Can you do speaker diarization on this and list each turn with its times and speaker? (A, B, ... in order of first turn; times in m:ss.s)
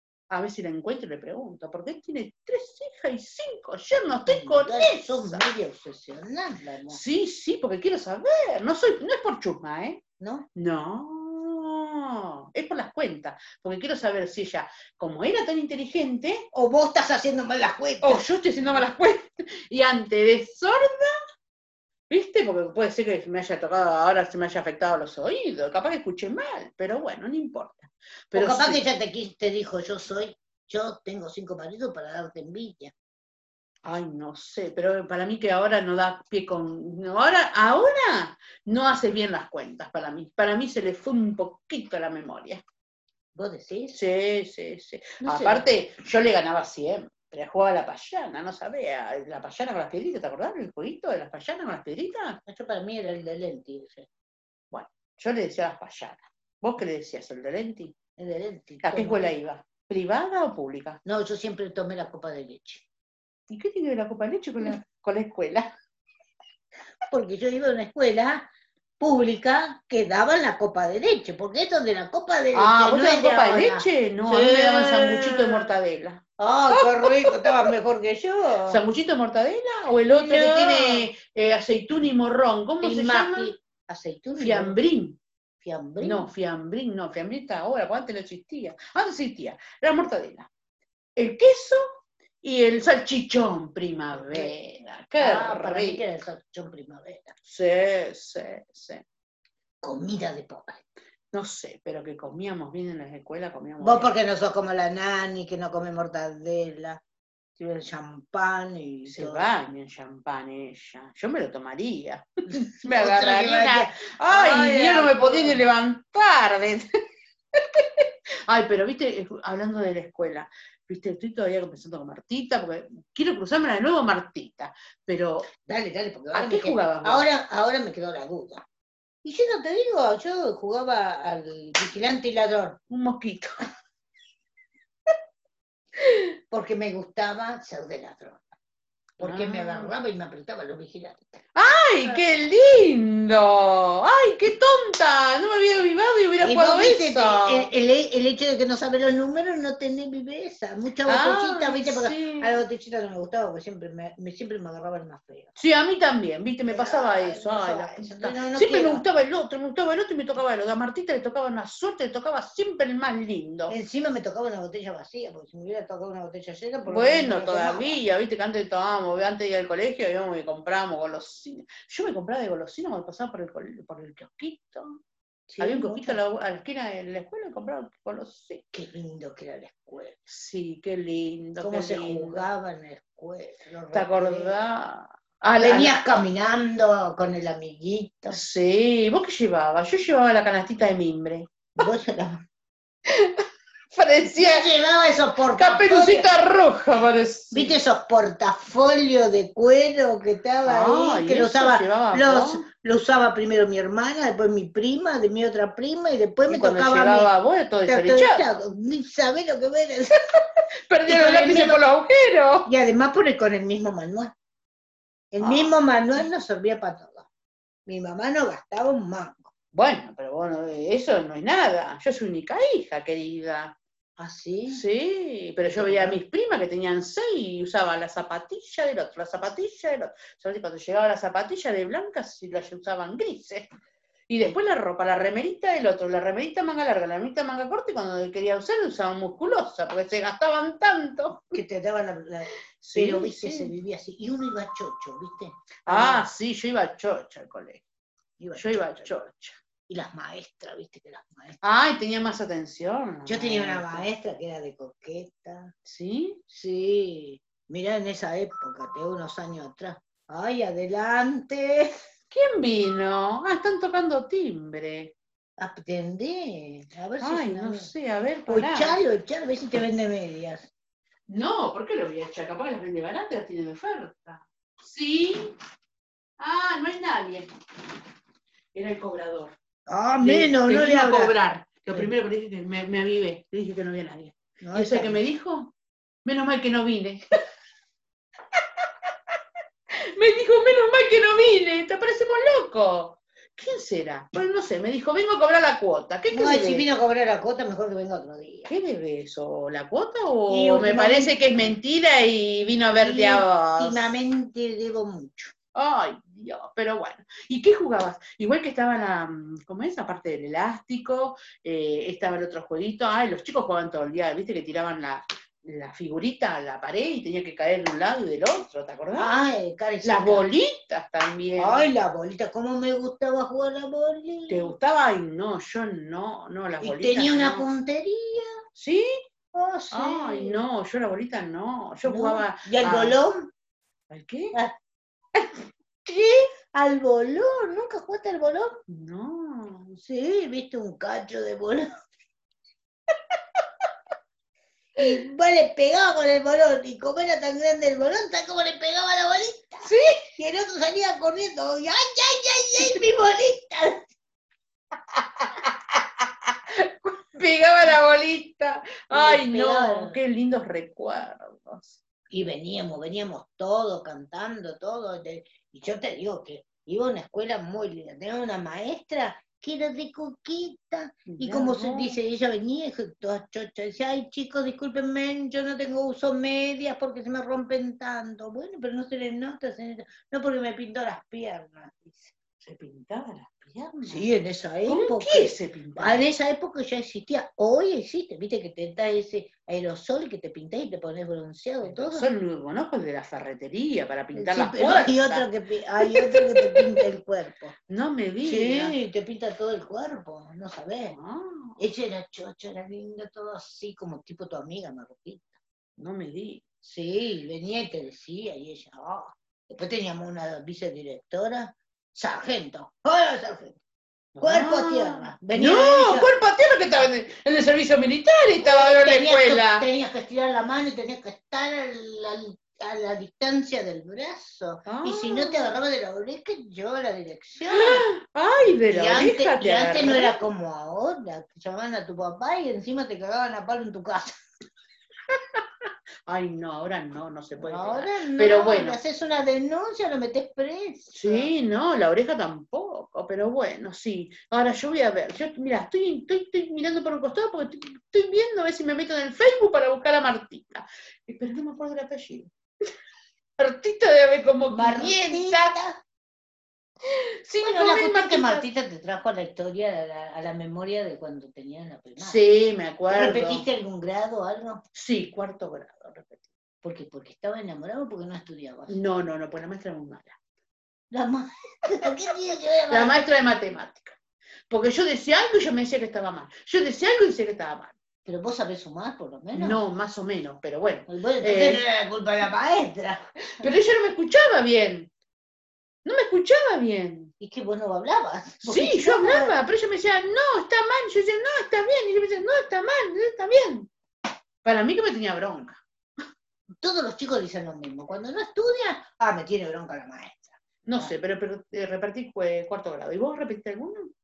0:00.3-0:05.4 A
0:04.3-0:07.0 B
0:06.9-0:10.0 A
0:10.2-0:10.4 B
0:10.5-0:16.4 A
0:16.5-0:18.2 B
0:18.0-0:21.1 A
0:22.1-0:28.8 A
0:28.3-0:32.9 B
0:33.8-0:42.6 A
0:43.3-0:44.0 B
0:43.9-0:52.4 A
0:45.2-0:45.7 B
0:52.5-0:54.1 B
0:54.7-0:57.9 A
0:58.2-0:59.3 B
0:58.8-1:01.0 A
1:01.0-1:02.8 B
1:03.5-1:05.7 A
1:07.1-1:15.7 B
1:12.5-1:16.2 A
1:16.4-1:18.8 B
1:17.0-1:17.7 A
1:18.7-1:23.5 A
1:20.1-1:21.1 B
1:22.8-1:24.8 B
1:24.4-1:25.2 A
1:25.6-1:26.3 B
1:26.0-1:30.5 A
1:31.2-1:31.8 A
1:32.4-1:36.0 A
1:34.1-1:34.5 B
1:35.2-1:37.3 B
1:37.4-1:39.0 A
1:39.8-1:40.8 B
1:41.3-1:44.1 A
1:43.8-1:47.0 B
1:47.6-1:49.5 B
1:49.1-1:56.9 A
1:52.8-1:55.6 B
1:57.6-2:05.5 A
2:05.6-2:08.6 B
2:06.3-2:07.2 A
2:09.2-2:12.8 B
2:12.9-2:13.5 A
2:16.5-2:18.4 B
2:19.2-2:21.4 B
2:19.2-2:19.9 A
2:21.5-2:27.7 A
2:26.4-2:35.5 B
2:31.1-2:32.6 A
2:35.6-2:43.7 A
2:36.7-2:39.0 B
2:43.7-2:48.0 B
2:46.9-2:55.0 A
2:55.5-2:56.2 B
2:55.6-2:58.6 A
2:58.7-3:00.2 B
3:00.3-3:02.4 A
3:01.6-3:04.6 B
3:03.9-3:05.9 A
3:05.6-3:08.4 B
3:08.3-3:11.7 A
3:11.8-3:12.4 B
3:13.1-3:14.8 A
3:14.3-3:16.3 B
3:15.6-3:17.8 A
3:17.5-3:27.3 B
3:20.6-3:22.6 A
3:26.5-3:28.4 A
3:27.9-3:30.2 B
3:30.9-3:32.7 A
3:31.1-3:31.8 B
3:32.6-3:34.3 B
3:35.3-3:37.3 B
3:35.4-3:35.7 A
3:37.8-3:39.5 B
3:39.7-3:43.7 A
3:44.2-3:44.8 B
3:44.7-3:53.7 A
3:45.6-3:46.2 B
3:54.3-4:01.5 A
4:01.5-4:06.2 B
4:02.8-4:03.7 A
4:05.9-4:07.8 A
4:08.4-4:09.1 B
4:08.5-4:09.6 A
4:09.9-4:11.6 B
4:11.6-4:14.1 A
4:13.2-4:15.7 B
4:15.8-4:16.4 A
4:16.5-4:21.9 B
4:22.3-4:25.1 A
4:25.6-4:27.9 B
4:27.2-4:29.0 A
4:28.5-4:30.7 B
4:31.3-4:35.5 A
4:36.4-4:37.5 A
4:38.7-4:39.5 A
4:39.9-4:41.3 B
4:40.2-4:45.7 A
4:44.6-4:45.2 B
4:46.2-4:47.2 A
4:48.6-4:48.9 A
4:50.1-4:56.8 A
4:56.3-4:58.7 B
4:58.7-5:04.1 A
5:00.5-5:01.4 B
5:03.0-5:05.5 B
5:05.7-5:19.4 A
5:19.1-5:20.5 B
5:20.0-5:21.9 A
5:21.6-5:24.7 B
5:24.5-5:27.6 A
5:26.8-5:28.5 B
5:28.7-5:29.1 A
5:29.5-5:30.6 B
5:29.9-5:33.2 A
5:32.0-5:33.5 B
5:34.1-5:34.5 A
5:36.0-5:38.8 B
5:38.9-5:39.9 A
5:40.0-5:41.9 B
5:45.0-5:54.0 B
5:49.8-5:50.2 A
5:55.1-6:02.0 A
5:59.1-6:00.2 B
6:02.3-6:22.3 B
6:11.3-6:12.2 A
6:22.6-6:24.3 A
6:24.1-6:32.3 B
6:24.9-6:26.2 A
6:31.8-6:35.4 A
6:34.3-6:37.7 B
6:36.1-6:36.8 A
6:37.9-6:38.9 A
6:38.4-6:41.2 B
6:41.1-6:41.8 A
6:41.8-6:45.5 B
6:46.0-6:46.6 A
6:46.8-6:53.8 B
6:54.3-6:59.9 A
6:54.4-6:56.3 B
6:58.6-7:08.1 B
7:04.8-7:05.7 A
7:07.7-7:10.4 A
7:08.9-7:14.3 B
7:16.2-7:19.0 A
7:17.6-7:21.5 B
7:21.1-7:32.5 A
7:33.6-7:35.7 A
7:34.7-7:36.0 B
7:37.1-7:38.7 A
7:37.6-7:42.4 B
7:42.2-7:43.6 A
7:43.1-7:44.8 B
7:44.9-7:46.4 A
7:46.8-7:49.0 B
7:48.9-7:50.4 A
7:51.1-7:53.2 B
7:52.9-7:54.2 A
7:54.7-7:58.0 A
7:58.2-7:59.8 B
7:59.5-8:01.8 A
8:01.1-8:03.2 B
8:03.6-8:05.1 A
8:06.0-8:07.3 A
8:07.4-8:09.5 B
8:08.6-8:13.9 A
8:14.6-8:15.8 A
8:16.8-8:21.1 B
8:20.8-8:24.1 A